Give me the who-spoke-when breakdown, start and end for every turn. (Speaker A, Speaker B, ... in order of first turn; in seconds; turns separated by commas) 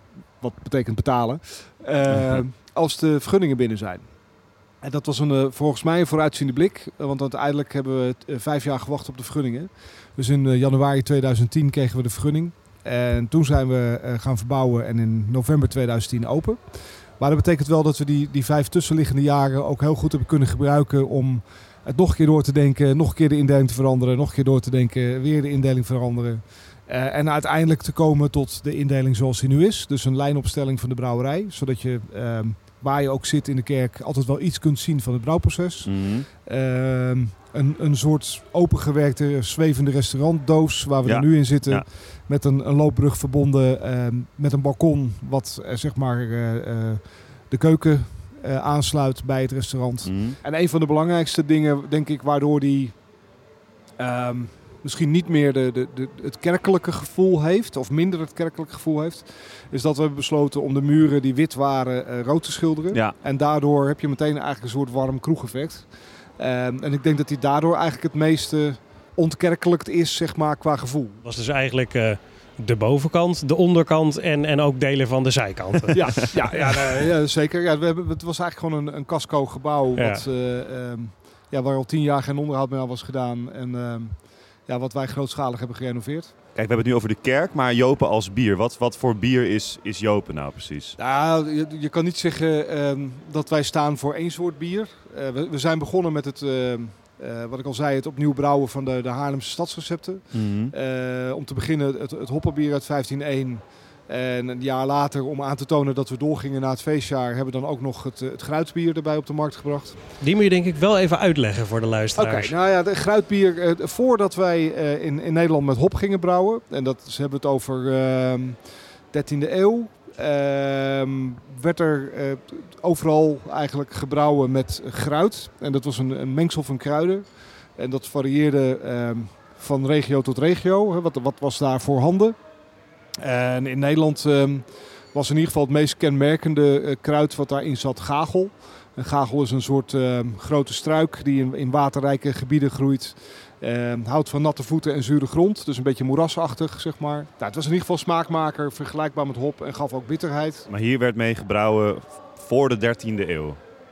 Speaker A: 0.4-4.1, Speaker A: 4.8-53.0, Speaker B: 35.8-36.3, Speaker B: 41.0-41.9, Speaker B: 50.0-50.4, Speaker A: 54.0-71.2, Speaker C: 71.2-77.0, Speaker A: 75.9-86.3, Speaker C: 80.0-80.2, Speaker B: 86.5-91.0, Speaker A: 91.0-110.0, Speaker B: 100.3-100.7, Speaker C: 110.2-112.5, Speaker A: 112.2-132.4, Speaker A: 133.2-150.7, Speaker B: 150.7-153.6